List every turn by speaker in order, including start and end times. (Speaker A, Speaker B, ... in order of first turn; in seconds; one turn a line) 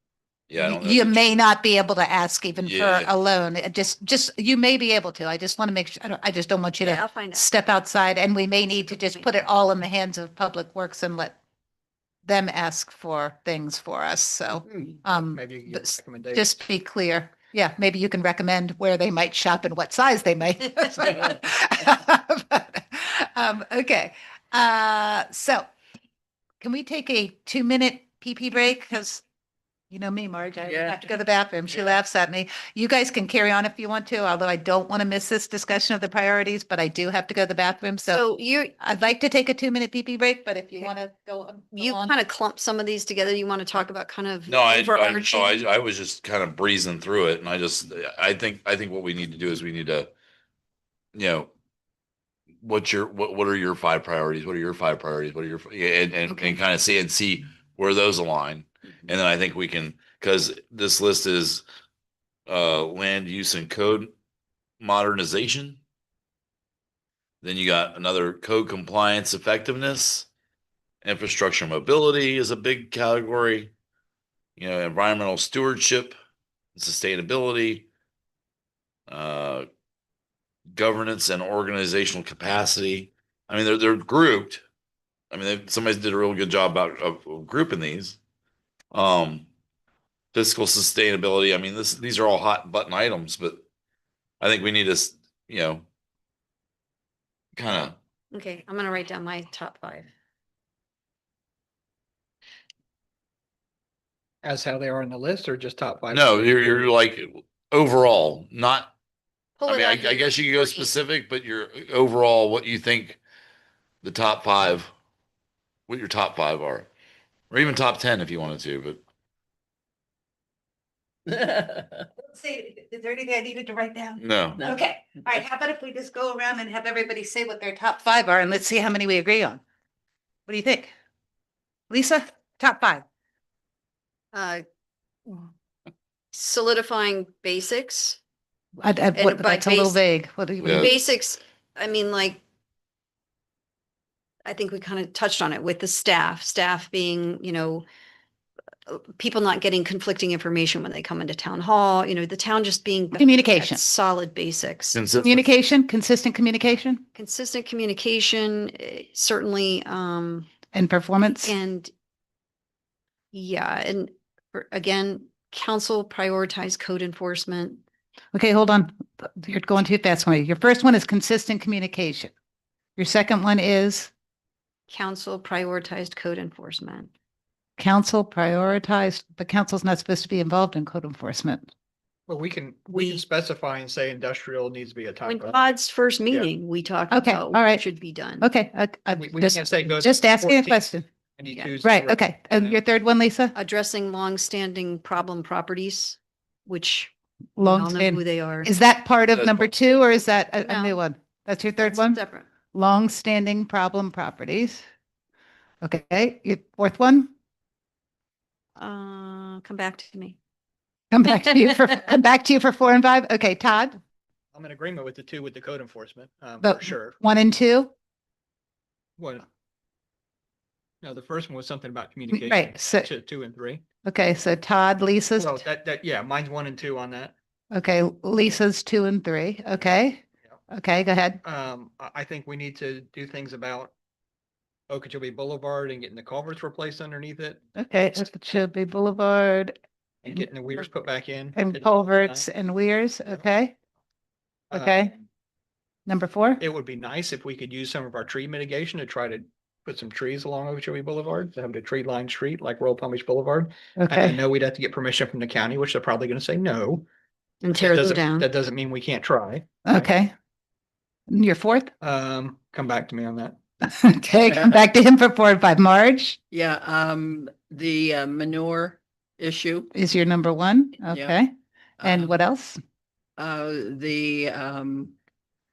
Speaker A: 0.5-1.2
Speaker B: 0.6-11.4
Speaker A: 2.6-3.1
Speaker C: 6.8-7.4
Speaker C: 8.9-9.3
Speaker B: 12.2-25.6
Speaker C: 14.6-14.9
Speaker D: 15.3-16.5
Speaker B: 26.6-29.2
Speaker B: 29.9-38.2
Speaker E: 30.6-31.1
Speaker C: 38.1-38.7
Speaker B: 38.8-42.1
Speaker C: 41.7-45.6
Speaker A: 44.5-50.1
Speaker A: 51.1-51.5
Speaker A: 52.6-61.6
Speaker C: 56.3-56.6
Speaker A: 62.5-64.1
Speaker A: 64.8-65.8
Speaker A: 67.4-70.3
Speaker A: 71.0-73.7
Speaker A: 74.6-76.2
Speaker A: 76.7-77.9
Speaker A: 79.1-79.7
Speaker A: 80.7-84.6
Speaker A: 85.3-88.2
Speaker A: 88.9-89.5
Speaker A: 90.3-93.6
Speaker A: 94.4-95.8
Speaker A: 97.5-98.0
Speaker C: 98.3-100.1
Speaker D: 104.4-106.9
Speaker A: 106.1-108.9
Speaker C: 109.6-110.9
Speaker A: 109.7-113.2
Speaker A: 114.0-114.9
Speaker A: 115.9-116.9
Speaker A: 117.5-119.0
Speaker E: 121.3-121.9
Speaker B: 122.2-129.6
Speaker A: 124.2-124.6
Speaker B: 130.5-130.9
Speaker B: 131.9-133.0
Speaker C: 134.3-134.6
Speaker C: 136.3-138.2
Speaker B: 138.8-140.9
Speaker C: 139.2-140.0
Speaker A: 140.6-140.9
Speaker C: 140.7-142.4
Speaker C: 144.4-147.8
Speaker C: 148.9-155.0
Speaker B: 153.1-153.8
Speaker A: 154.9-155.4
Speaker B: 155.2-157.0
Speaker C: 157.2-160.5
Speaker B: 160.7-161.5
Speaker C: 161.4-161.9
Speaker C: 163.3-167.8
Speaker B: 168.3-172.3
Speaker B: 173.0-174.1
Speaker C: 174.9-177.1
Speaker B: 177.8-181.7
Speaker D: 182.3-185.5
Speaker B: 182.9-183.2
Speaker C: 185.2-188.5
Speaker B: 187.1-187.8
Speaker B: 188.4-191.1
Speaker D: 189.1-190.8
Speaker D: 191.4-192.8
Speaker B: 191.8-193.5
Speaker C: 193.5-198.7
Speaker B: 197.6-202.2
Speaker C: 200.6-201.0
Speaker C: 201.8-202.4
Speaker B: 202.7-204.8
Speaker B: 205.8-207.3
Speaker C: 208.8-210.4
Speaker B: 211.1-214.0
Speaker D: 214.5-217.2
Speaker B: 216.6-217.9
Speaker D: 219.2-219.4
Speaker D: 221.0-223.8
Speaker B: 222.3-223.1
Speaker B: 224.0-225.6
Speaker D: 225.4-227.3
Speaker B: 227.7-231.4
Speaker D: 231.4-233.9
Speaker D: 234.9-237.6
Speaker B: 237.8-239.8
Speaker D: 240.2-242.4
Speaker B: 241.6-243.7
Speaker D: 244.7-245.2
Speaker B: 244.7-245.1
Speaker B: 246.1-246.6
Speaker D: 246.6-257.1
Speaker B: 254.0-254.4
Speaker C: 257.6-258.5
Speaker D: 257.7-260.1
Speaker B: 259.8-260.3
Speaker B: 261.3-261.9
Speaker D: 262.0-263.6
Speaker B: 263.8-266.4
Speaker E: 264.4-264.8
Speaker E: 266.5-269.9
Speaker B: 269.9-271.5
Speaker E: 271.1-271.4
Speaker E: 272.0-272.3
Speaker B: 272.0-272.8
Speaker E: 273.4-275.1